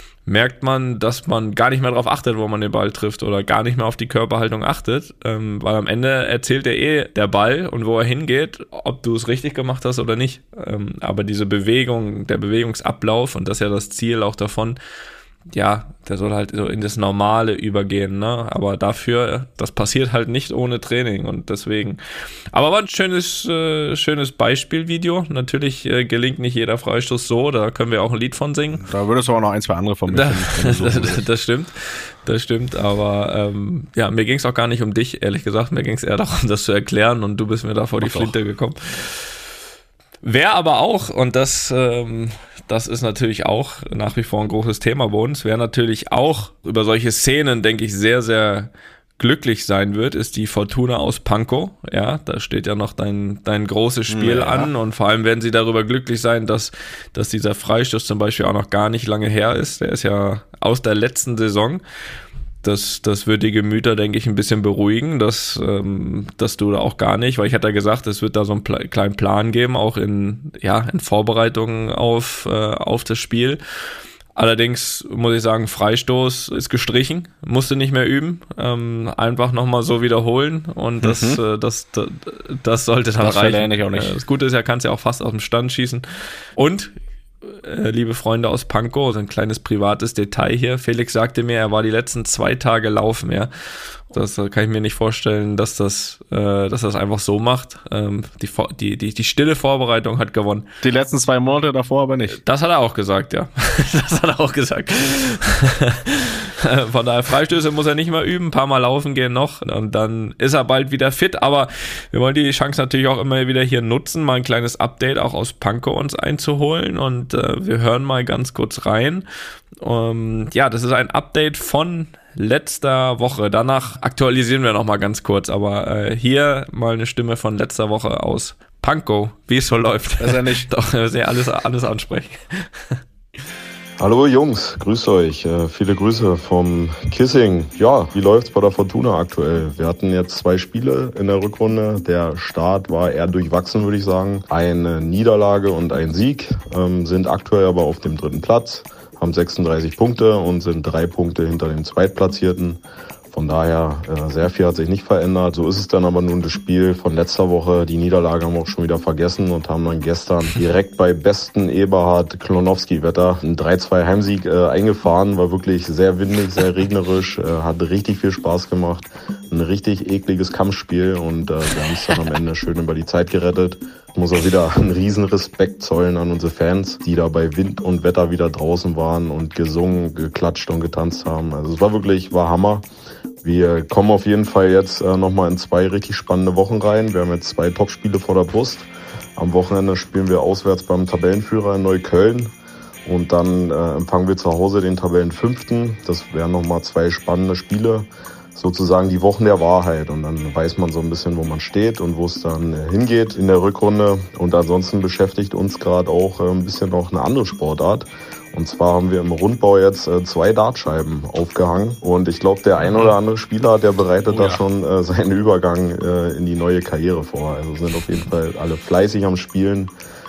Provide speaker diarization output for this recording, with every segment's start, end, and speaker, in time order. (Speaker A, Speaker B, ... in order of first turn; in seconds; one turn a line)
Speaker A: 0.2-14.8
Speaker A: 15.5-22.0
Speaker A: 22.5-28.8
Speaker B: 28.8-31.2
Speaker A: 30.1-39.3
Speaker B: 38.0-38.3
Speaker A: 40.2-61.8
Speaker B: 54.1-54.7
Speaker A: 62.6-73.6
Speaker A: 74.3-93.5
Speaker B: 81.0-81.4
Speaker B: 83.2-84.2
Speaker A: 94.1-100.7
Speaker B: 100.8-102.4
Speaker A: 102.3-119.2
Speaker A: 119.8-133.0
Speaker B: 130.2-130.7
Speaker C: 134.0-152.8
Speaker C: 153.3-182.8
Speaker C: 183.4-192.5
Speaker C: 193.0-219.9
Speaker B: 214.2-214.6